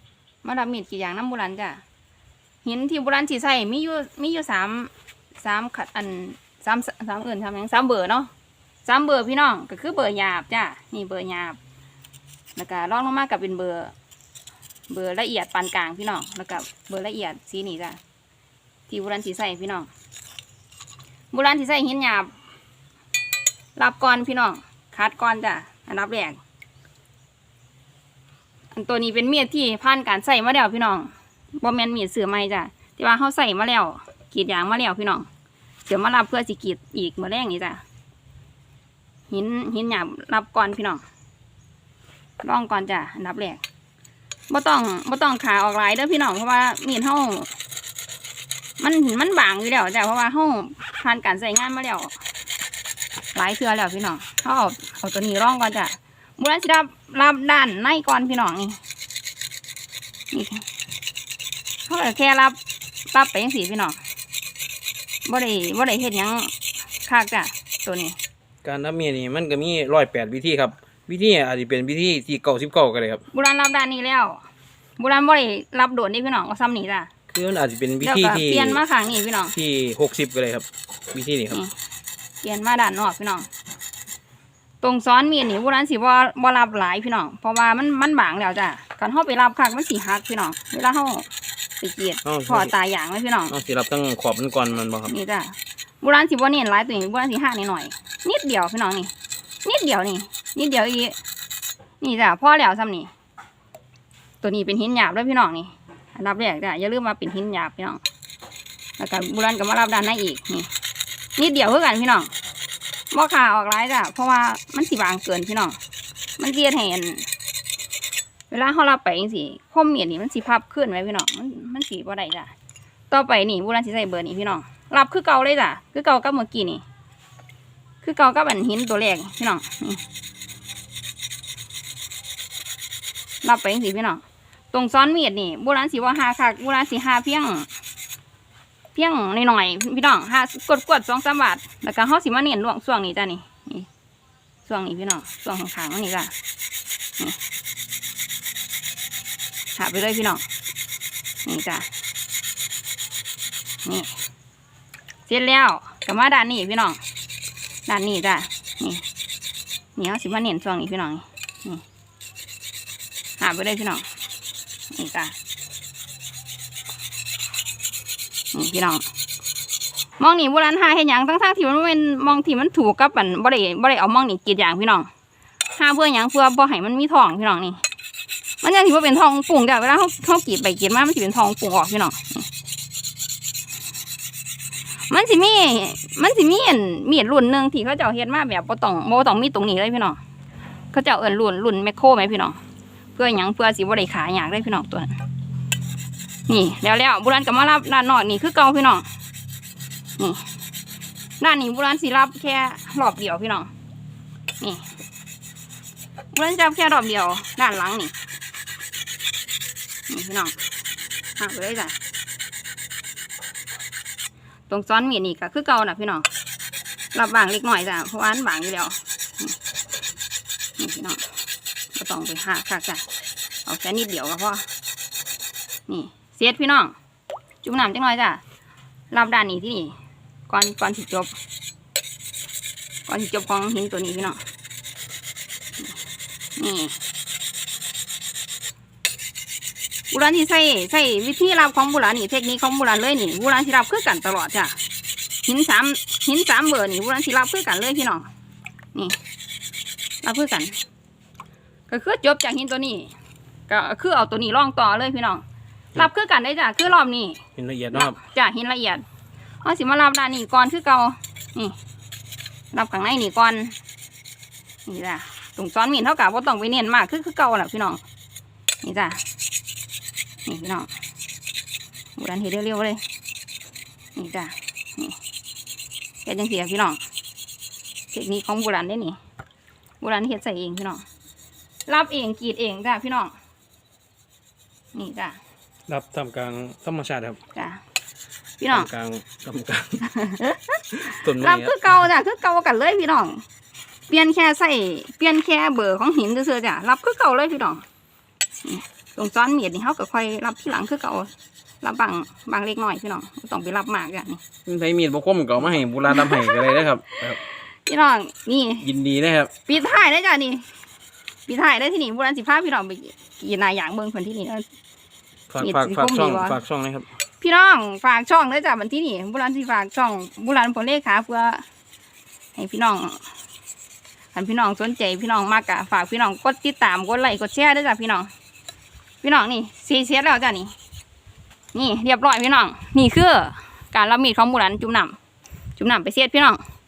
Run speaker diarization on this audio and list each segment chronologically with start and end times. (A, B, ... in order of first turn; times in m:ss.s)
0:00.4-0:01.8 A
0:02.6-0:08.3 A
0:08.8-0:11.6 A
0:12.6-0:13.9 A
0:14.9-0:18.0 A
0:18.9-0:19.9 A
0:21.3-0:22.3 A
0:23.8-0:26.4 A
0:28.7-0:35.3 A
0:35.8-0:37.8 A
0:39.3-0:41.0 A
0:42.4-0:43.6 A
0:44.5-0:47.5 A
0:48.8-0:52.2 A
0:53.3-0:58.8 A
1:00.3-1:00.6 A
1:01.9-1:02.6 A
1:03.1-1:04.0 A
1:05.2-1:06.5 A
1:07.0-1:08.2 A
1:08.6-1:13.2 B
1:13.3-1:14.4 A
1:15.0-1:17.1 A
1:17.3-1:18.8 B
1:18.0-1:19.5 A
1:19.5-1:21.6 B
1:22.4-1:23.5 A
1:24.8-1:31.3 A
1:31.8-1:33.5 A
1:32.2-1:32.7 B
1:33.5-1:35.1 B
1:35.1-1:39.1 A
1:39.6-1:41.2 A
1:42.0-1:43.1 A
1:44.4-1:48.0 A
1:49.0-1:50.7 A
1:51.4-1:52.3 A
1:53.1-1:55.8 A
1:56.4-1:57.3 A
1:58.5-2:02.5 A
2:03.1-2:06.8 A
2:08.0-2:10.0 A
2:13.4-2:17.7 A
2:18.9-2:23.9 A
2:24.6-2:26.3 A
2:29.7-2:30.4 A
2:31.4-2:31.9 A
2:33.8-2:34.2 A
2:35.3-2:37.0 A
2:37.9-2:39.0 A
2:40.0-2:41.8 A
2:43.4-2:44.1 A
2:44.9-2:45.3 A
2:48.5-2:49.0 A
2:50.2-2:55.1 A
2:55.7-2:57.8 A
2:58.6-3:02.5 A
3:05.1-3:10.2 A
3:10.9-3:12.6 A
3:13.1-3:15.2 A
3:16.5-3:19.1 A
3:20.2-3:20.5 A
3:21.4-3:23.7 A
3:24.6-3:24.9 A
3:26.3-3:28.1 A
3:30.1-3:30.6 A
3:31.4-3:32.0 A
3:34.7-3:36.3 A
3:37.1-3:39.6 A
3:40.8-3:41.2 A
3:41.9-3:43.0 A
3:43.6-3:44.6 A
3:45.9-3:47.0 A
3:47.6-3:48.4 A
3:49.1-3:50.0 A
3:50.5-3:51.3 A
3:53.1-3:54.4 A
3:56.6-3:57.0 A
4:00.1-4:04.8 A
4:05.4-4:08.3 A
4:10.2-4:10.8 A
4:11.9-4:13.1 A
4:13.7-4:15.4 A
4:15.9-4:17.4 A
4:17.6-4:18.2 B
4:17.9-4:19.0 A
4:19.6-4:21.8 A
4:22.7-4:23.7 A
4:24.8-4:28.0 A
4:28.8-4:29.2 A
4:30.4-4:30.9 A
4:32.2-4:33.0 A
4:34.2-4:35.2 A
4:36.2-4:37.0 A
4:38.1-4:39.2 A
4:40.0-4:41.0 A
4:41.9-4:43.3 A
4:44.9-4:45.4 A
4:45.9-4:47.4 B
4:47.5-4:47.8 A
4:48.6-4:48.9 A
4:48.7-4:50.1 B
4:50.1-4:53.4 A
4:50.9-4:51.8 B
4:54.1-4:57.8 A
4:58.6-5:01.3 A
5:01.8-5:04.4 A
5:04.6-5:07.4 B
5:06.1-5:06.8 A
5:07.8-5:08.9 A
5:08.8-5:09.5 B
5:09.6-5:10.7 A
5:11.5-5:14.6 A
5:15.5-5:17.1 B
5:15.6-5:16.6 A
5:17.4-5:21.6 A
5:22.6-5:23.2 A
5:24.3-5:28.3 A
5:29.2-5:30.7 A
5:31.7-5:35.2 A
5:35.8-5:36.6 A